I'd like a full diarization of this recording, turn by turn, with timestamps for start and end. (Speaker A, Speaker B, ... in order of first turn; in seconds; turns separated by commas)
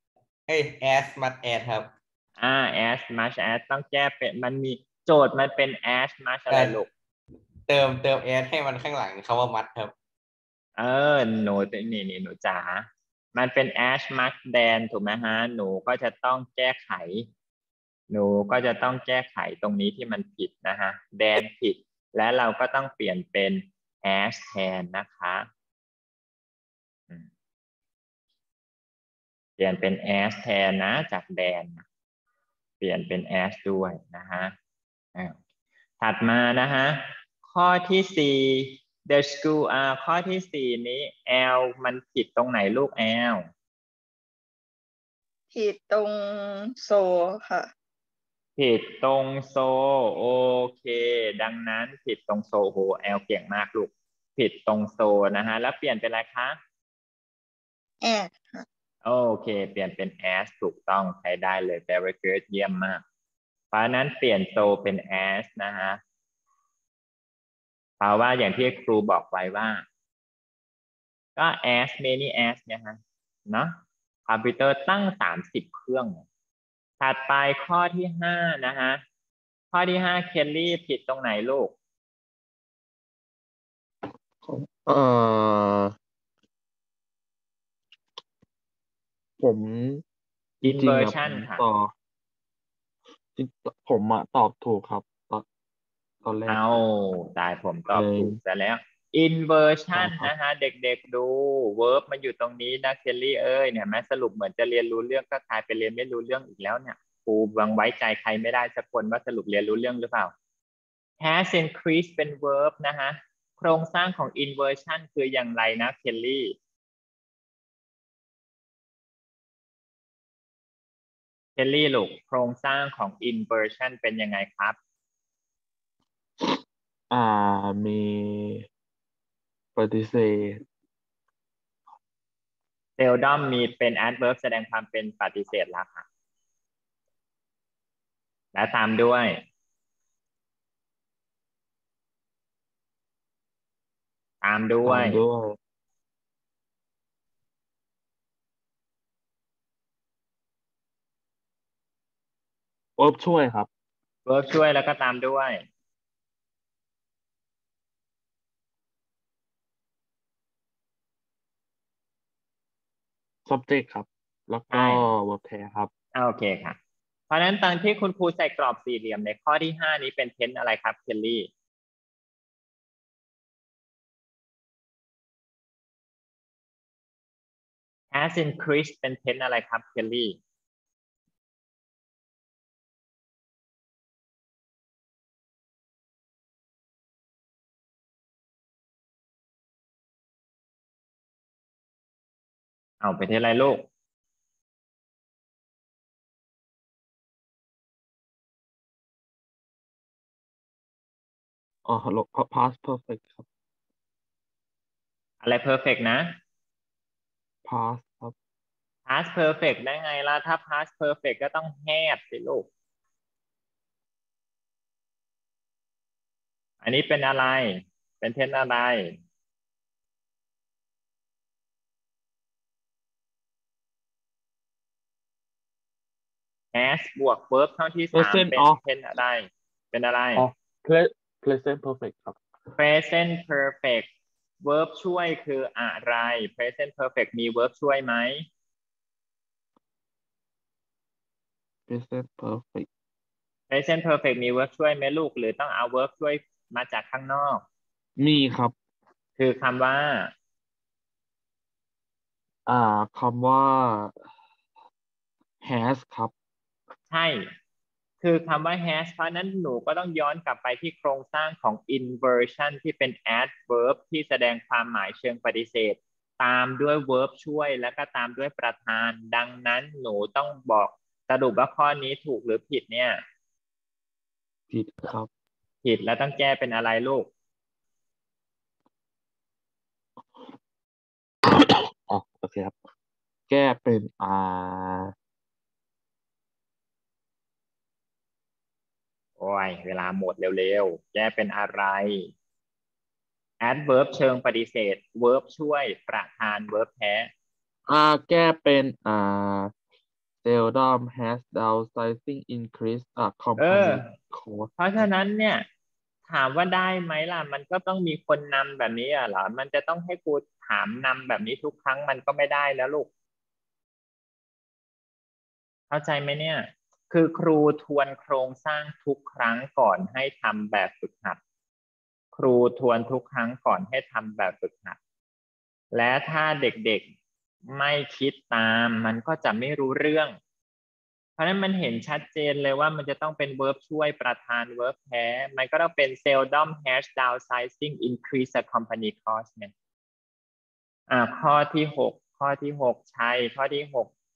Speaker A: 0.5-1.9, Speaker B: 2.4-6.9, Speaker A: 6.5-6.8, Speaker A: 7.7-9.9, Speaker B: 10.8-17.3, Speaker B: 18.1-25.5, Speaker B: 29.6-31.8, Speaker B: 32.8-34.5, Speaker B: 36.0-43.4, Speaker C: 45.5-47.7, Speaker B: 48.6-56.6, Speaker C: 58.0-58.6, Speaker B: 59.0-63.0, Speaker B: 63.7-66.0, Speaker B: 68.0-69.8, Speaker B: 71.3-73.0, Speaker B: 73.5-76.2, Speaker B: 77.0-79.0, Speaker B: 79.7-81.7, Speaker D: 84.4-85.9, Speaker D: 89.4-90.0, Speaker B: 90.6-91.6, Speaker D: 90.6-91.9, Speaker D: 93.3-95.4, Speaker D: 96.2-96.8, Speaker B: 96.5-110.3, Speaker D: 97.9-98.4, Speaker D: 99.9-100.3, Speaker B: 111.2-116.5, Speaker B: 121.6-124.8, Speaker D: 127.1-128.6, Speaker D: 129.7-130.6, Speaker B: 133.0-136.1, Speaker B: 138.5-139.3, Speaker B: 144.4-145.2, Speaker D: 144.8-145.6, Speaker D: 153.0-153.7, Speaker B: 154.2-155.6, Speaker D: 163.4-165.9, Speaker B: 164.7-165.1, Speaker B: 166.1-166.8, Speaker B: 167.3-171.5, Speaker B: 178.1-180.4, Speaker B: 193.0-193.9, Speaker D: 201.8-203.5, Speaker B: 205.4-206.3, Speaker D: 207.6-208.3, Speaker B: 209.1-212.7, Speaker B: 216.8-219.2, Speaker B: 226.7-230.4, Speaker D: 228.1-228.8, Speaker D: 230.3-232.4, Speaker B: 232.8-234.1, Speaker B: 234.6-238.4, Speaker D: 241.9-242.9, Speaker B: 243.7-247.6, Speaker D: 248.2-248.7, Speaker B: 249.4-250.3, Speaker D: 252.7-254.1, Speaker D: 255.6-256.3, Speaker B: 257.1-257.4, Speaker B: 258.2-273.2, Speaker D: 274.7-275.3, Speaker B: 275.8-277.3, Speaker D: 281.4-282.8, Speaker D: 283.5-285.1, Speaker B: 289.4-292.3, Speaker B: 293.6-297.3, Speaker D: 297.9-299.7, Speaker D: 300.4-304.7, Speaker B: 303.6-304.0, Speaker B: 304.8-305.6, Speaker B: 306.3-313.1, Speaker B: 315.9-321.4, Speaker B: 322.3-325.0, Speaker B: 325.9-327.1, Speaker B: 327.7-330.4, Speaker B: 331.4-339.7, Speaker B: 341.1-344.1